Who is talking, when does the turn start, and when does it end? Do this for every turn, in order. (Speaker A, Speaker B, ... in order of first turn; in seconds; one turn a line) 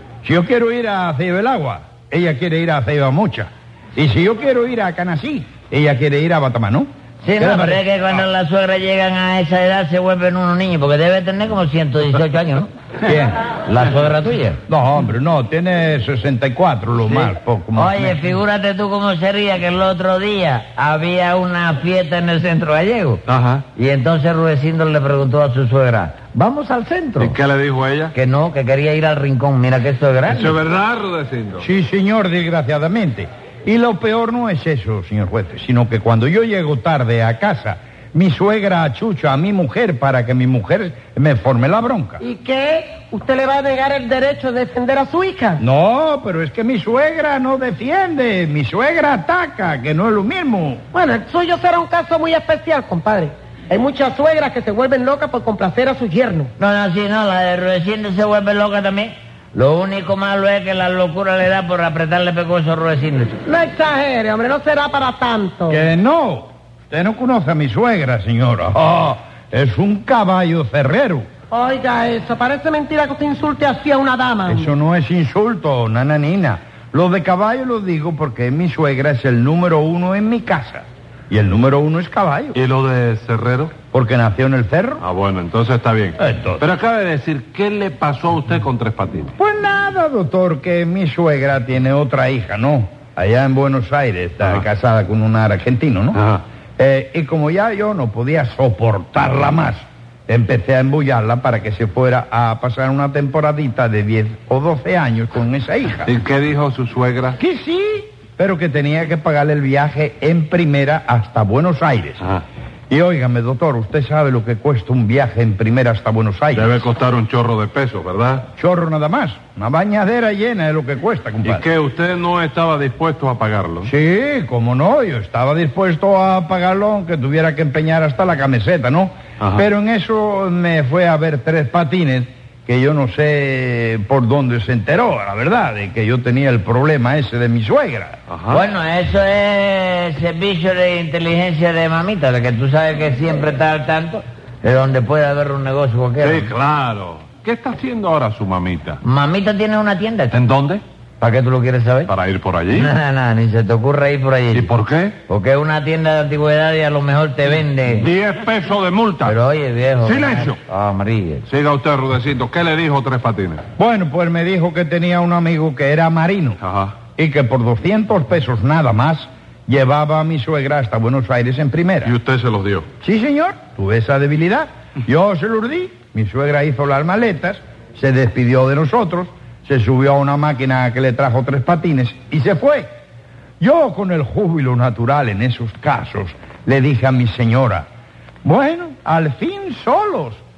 Speaker A: 0.2-8.2
Speaker B: 7.2-12.7
Speaker A: 13.0-13.4
Speaker B: 13.7-14.6
Speaker A: 14.7-18.2
Speaker B: 17.0-23.2
Speaker C: 23.3-23.6
Speaker B: 23.8-27.4
Speaker C: 27.2-28.1
Speaker B: 28.1-30.6
Speaker C: 30.3-31.6
Speaker A: 31.6-42.2
Speaker D: 42.2-45.6
Speaker A: 45.6-50.8
Speaker D: 50.9-56.5
Speaker B: 56.6-63.4
Speaker D: 63.5-65.9
Speaker A: 65.7-71.3
Speaker D: 71.5-74.7
Speaker A: 74.5-82.6
Speaker C: 82.5-83.8
Speaker A: 83.9-85.0
Speaker C: 85.0-89.4
Speaker A: 86.2-86.6
Speaker A: 89.4-96.2
Speaker C: 96.1-96.4
Speaker A: 96.8-106.1
Speaker C: 106.0-107.4
Speaker A: 107.4-112.2
Speaker A: 112.9-116.8
Speaker C: 116.5-118.5
Speaker A: 118.6-121.7
Speaker C: 121.4-123.9
Speaker A: 123.8-138.2
Speaker C: 129.4-129.7
Speaker C: 138.3-138.7
Speaker B: 138.5-146.5
Speaker C: 146.2-149.0
Speaker B: 149.0-150.4
Speaker C: 150.3-150.8
Speaker B: 151.2-152.1
Speaker C: 152.1-152.9
Speaker B: 152.7-154.7
Speaker C: 154.5-155.2
Speaker B: 155.3-158.1
Speaker C: 158.0-159.4
Speaker B: 159.2-161.5
Speaker C: 160.0-160.6
Speaker C: 161.5-163.6
Speaker A: 163.8-166.6
Speaker C: 166.6-166.9
Speaker A: 167.2-172.1
Speaker C: 172.0-172.9
Speaker A: 173.0-182.9
Speaker A: 183.6-187.9
Speaker A: 188.4-190.4